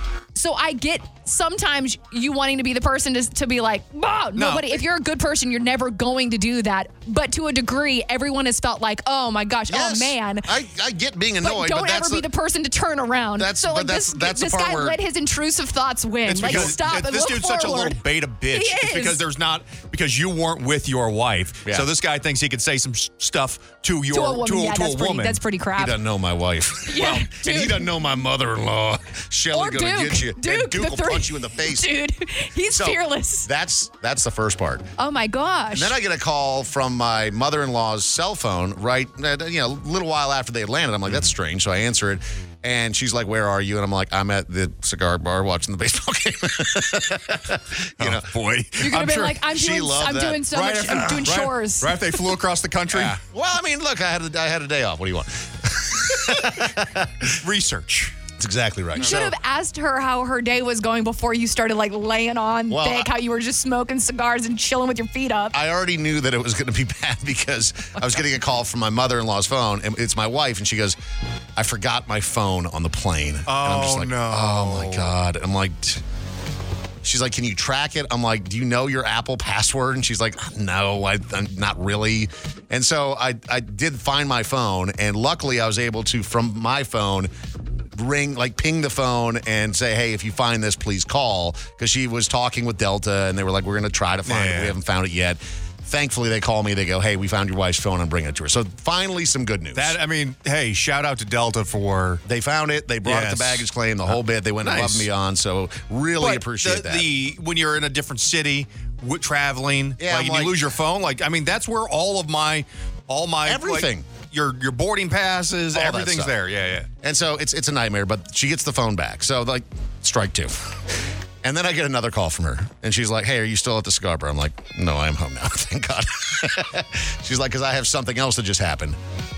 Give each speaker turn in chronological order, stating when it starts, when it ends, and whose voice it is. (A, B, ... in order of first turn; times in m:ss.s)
0:00.3-0:10.5 A
0:04.4-0:04.8 B
0:09.7-0:12.2 C
0:11.4-0:18.0 A
0:13.4-0:15.0 C
0:16.3-0:25.4 B
0:16.4-0:16.8 C
0:18.5-0:19.2 A
0:24.1-0:26.0 A
0:25.8-0:31.9 C
0:26.9-0:27.8 A
0:29.5-0:33.5 A
0:32.7-0:34.8 C
0:35.0-0:36.0 A
0:35.7-0:48.3 C
0:48.0-0:49.4 B
0:48.8-0:52.0 A
0:49.5-0:50.4 C
0:50.5-0:53.2 B
0:52.9-0:57.3 C
0:57.3-0:58.1 B
0:58.4-0:59.3 C
0:59.0-1:05.5 A
1:02.7-1:03.1 C
1:05.5-1:11.0 C
1:11.6-1:16.0 C
1:13.5-1:15.1 B
1:17.0-1:27.3 C
1:27.9-1:40.0 C
1:34.2-1:34.8 B
1:39.7-1:42.2 B
1:42.2-1:47.1 C
1:43.0-1:45.1 B
1:46.2-1:56.9 B
1:50.0-1:50.6 C
1:53.4-1:54.1 C
1:55.7-1:56.3 C
1:57.0-2:00.8 C
2:01.4-2:09.0 C